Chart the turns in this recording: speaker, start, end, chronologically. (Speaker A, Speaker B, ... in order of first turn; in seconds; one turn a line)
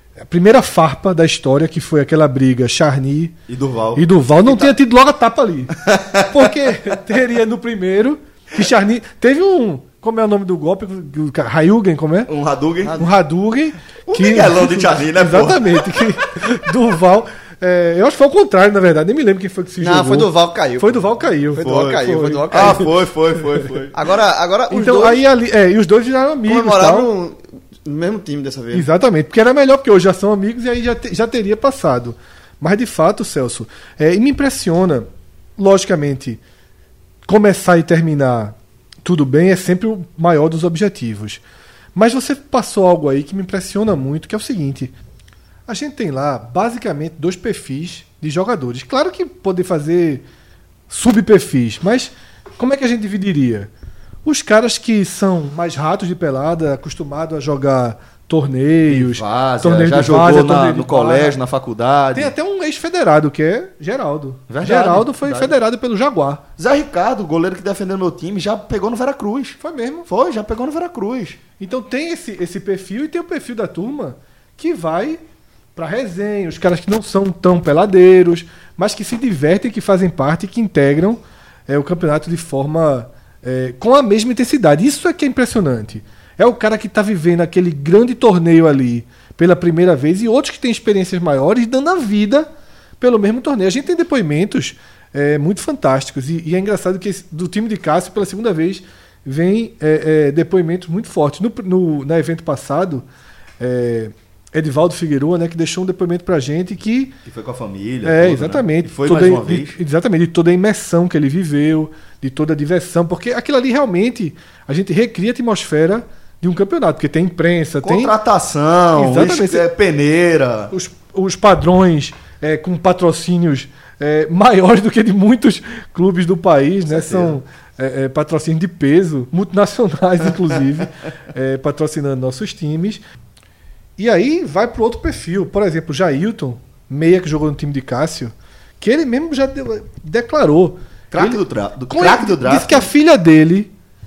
Speaker A: 0.3-3.3
Speaker B: 3.5-4.7
Speaker A: 4.0-12.3
Speaker B: 5.8-6.5
Speaker B: 12.3-13.0
Speaker C: 12.8-13.1
Speaker A: 13.0-22.9
Speaker B: 14.1-16.0
Speaker C: 19.8-22.9
Speaker B: 21.6-24.0
Speaker C: 23.9-25.2
Speaker A: 24.7-27.1
Speaker C: 26.4-28.9
Speaker A: 28.7-36.4
Speaker A: 37.3-41.4
Speaker A: 42.0-44.9
Speaker A: 45.7-50.2
Speaker A: 50.9-53.7
Speaker A: 54.2-61.4
Speaker B: 58.9-62.3
Speaker A: 62.1-66.4
Speaker B: 64.5-65.6
Speaker B: 66.6-71.4
Speaker A: 69.6-70.1
Speaker A: 71.6-75.2
Speaker A: 75.8-92.5
Speaker A: 93.0-103.0
Speaker A: 103.6-107.2
Speaker B: 107.3-109.8
Speaker A: 108.0-118.1
Speaker B: 117.8-120.7
Speaker A: 119.0-119.7
Speaker A: 120.7-133.0
Speaker B: 126.9-127.4
Speaker A: 134.0-141.4
Speaker B: 141.1-142.9
Speaker A: 141.9-143.7